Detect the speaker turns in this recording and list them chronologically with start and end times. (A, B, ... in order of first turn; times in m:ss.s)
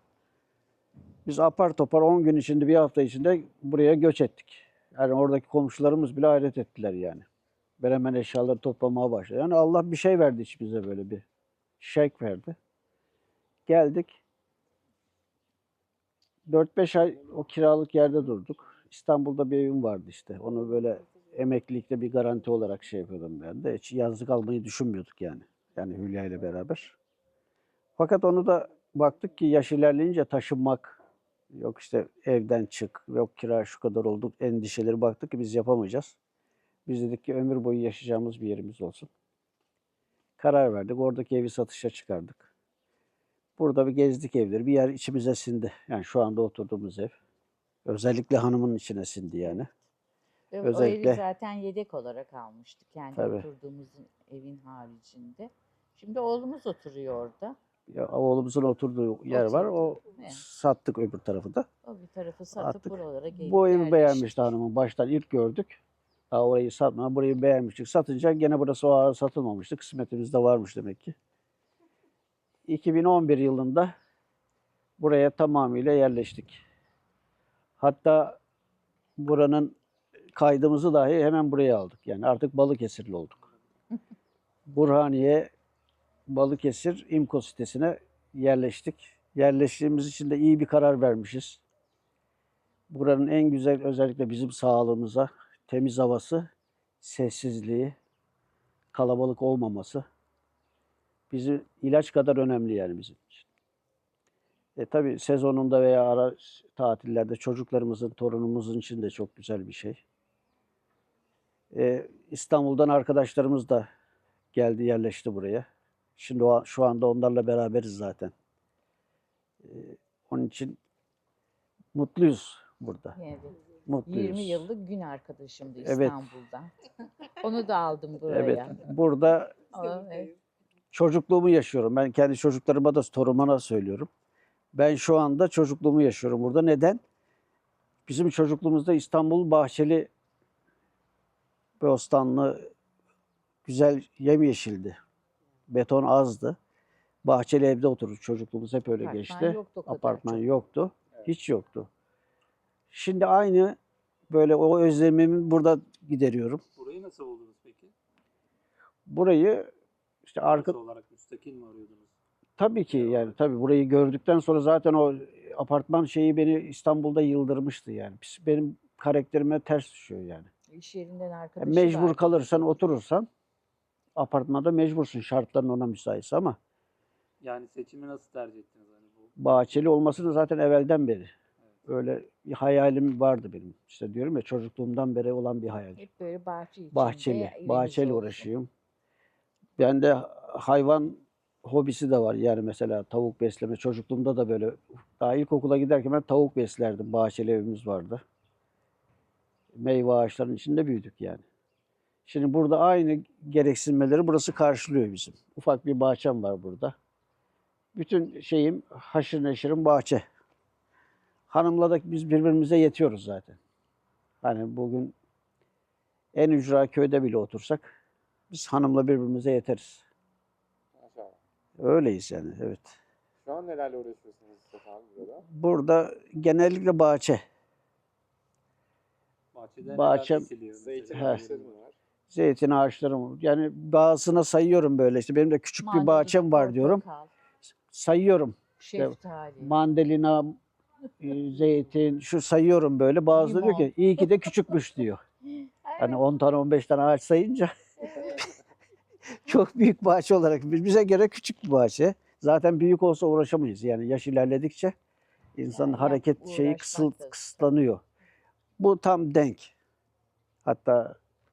0:01.3-0:07.3 A
0:07.8-0:11.2 A
0:11.8-0:12.6 A
0:13.7-0:14.2 A
0:16.5-0:27.0 A
0:28.0-0:31.0 A
0:31.5-0:36.2 A
0:36.9-0:39.1 A
0:40.4-0:42.5 A
0:43.6-0:47.2 A
0:47.8-0:49.7 A
0:50.5-0:57.6 B
0:50.6-0:51.2 A
0:53.2-0:53.5 A
0:57.9-1:01.7 A
0:59.3-1:00.4 B
1:01.8-1:04.5 B
1:02.6-1:05.8 A
1:06.3-1:11.2 A
1:12.7-1:13.9 A
1:15.0-1:16.6 A
1:17.8-1:18.4 A
1:19.2-1:19.8 A
1:20.4-1:23.5 A
1:24.7-1:25.5 A
1:26.3-1:31.6 A
1:32.9-1:36.5 A
1:37.0-1:38.0 A
1:38.9-1:40.0 A
1:41.3-1:43.5 A
1:44.8-1:50.0 A
1:51.7-1:53.9 A
1:54.5-1:55.7 A
1:56.2-1:58.3 A
1:59.6-2:00.8 A
2:02.0-2:03.2 A
2:03.2-2:06.7 B
2:03.9-2:04.6 A
2:05.8-2:06.3 A
2:07.4-2:08.9 B
2:08.3-2:09.6 A
2:09.7-2:10.3 B
2:10.9-2:14.1 A
2:14.7-2:17.0 A
2:18.1-2:20.1 A
2:21.8-2:22.7 A
2:23.6-2:25.0 A
2:25.7-2:26.6 A
2:27.2-2:31.9 A
2:29.0-2:30.4 B
2:32.9-2:33.8 A
2:34.3-2:36.6 A
2:36.8-2:37.9 C
2:39.1-2:39.7 A
2:40.3-2:40.8 A
2:40.4-2:42.1 C
2:42.6-2:50.5 A
2:43.1-2:43.3 C
2:50.7-2:52.8 B
2:51.6-2:53.3 A
2:54.2-2:56.6 A
2:57.4-2:59.3 C
2:59.4-3:01.3 A
3:01.9-3:06.0 A
3:06.0-3:08.5 B
3:06.9-3:08.7 A
3:09.8-3:18.2 A
3:19.8-3:21.4 A
3:22.3-3:26.9 A
3:28.0-3:30.2 A
3:31.5-3:33.6 A
3:34.4-3:35.2 A
3:36.4-3:37.9 A
3:38.5-3:40.0 A
3:41.0-3:41.4 D
3:41.8-3:43.0 A
3:43.4-3:45.4 D
3:45.5-3:47.4 A
3:49.5-3:51.7 C
3:49.8-3:50.5 A
3:50.7-3:52.0 D
3:52.3-3:57.0 A
3:55.8-3:57.3 B
3:57.9-4:00.6 A
3:58.8-3:59.8 B
4:01.2-4:05.2 A
4:03.3-4:04.3 B
4:05.8-4:06.2 B
4:06.0-4:08.4 A
4:08.0-4:08.4 B
4:09.4-4:14.9 A
4:15.6-4:18.0 A
4:15.7-4:17.7 B
4:18.8-4:19.7 A
4:20.6-4:21.2 A